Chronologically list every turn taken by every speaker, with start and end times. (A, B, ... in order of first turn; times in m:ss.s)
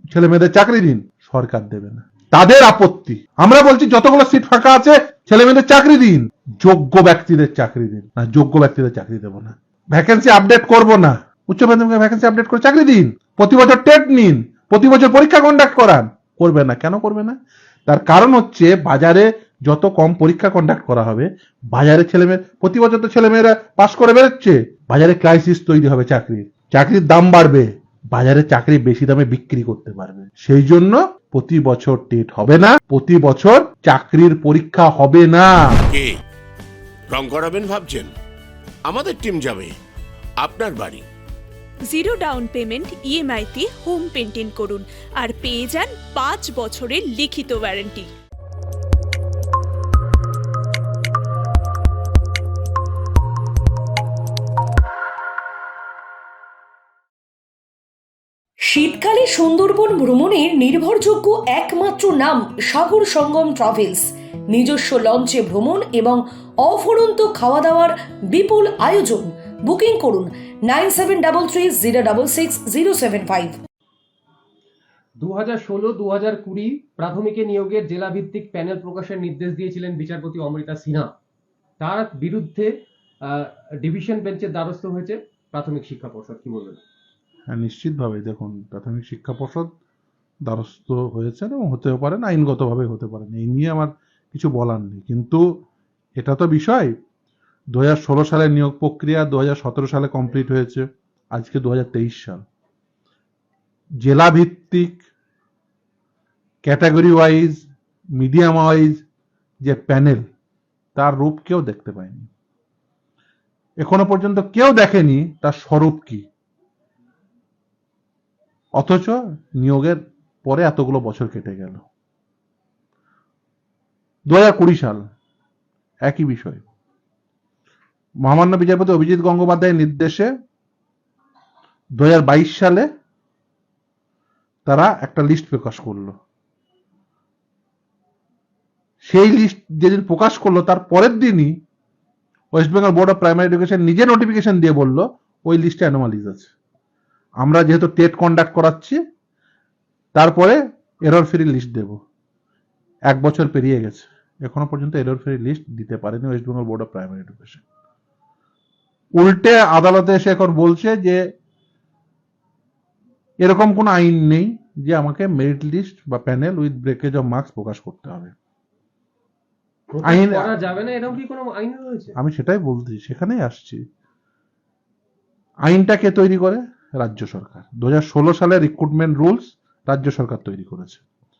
0:00.1-0:17.4 A
0:17.9-0:35.7 A
0:35.9-0:36.2 B
0:37.1-0:38.1 B
0:38.9-0:39.7 B
0:40.4-0:41.0 B
0:41.9-0:48.1 C
0:58.7-1:13.6 D
1:15.2-1:21.1 E
1:21.8-1:22.7 E
1:23.3-1:26.8 E
1:27.5-1:29.7 A
1:30.5-1:35.4 A
1:36.2-1:37.0 A
1:37.7-1:42.4 A
1:44.0-1:45.0 A
1:46.6-1:49.0 A
1:49.6-1:50.2 A
1:51.0-1:52.3 A
1:53.8-1:56.3 A
1:58.8-2:01.8 A
2:04.3-2:05.0 A
2:06.1-2:06.6 A
2:08.2-2:10.3 A
2:12.0-2:12.9 A
2:14.7-2:16.1 A
2:19.1-2:21.5 A
2:22.5-2:26.5 A
2:27.4-2:29.0 A
2:30.2-2:32.0 A
2:33.1-2:37.6 A
2:39.2-2:41.2 A
2:43.4-2:48.3 A
2:49.9-2:52.1 E
2:50.1-2:50.5 A
2:52.2-2:53.8 A
2:55.7-3:01.0 A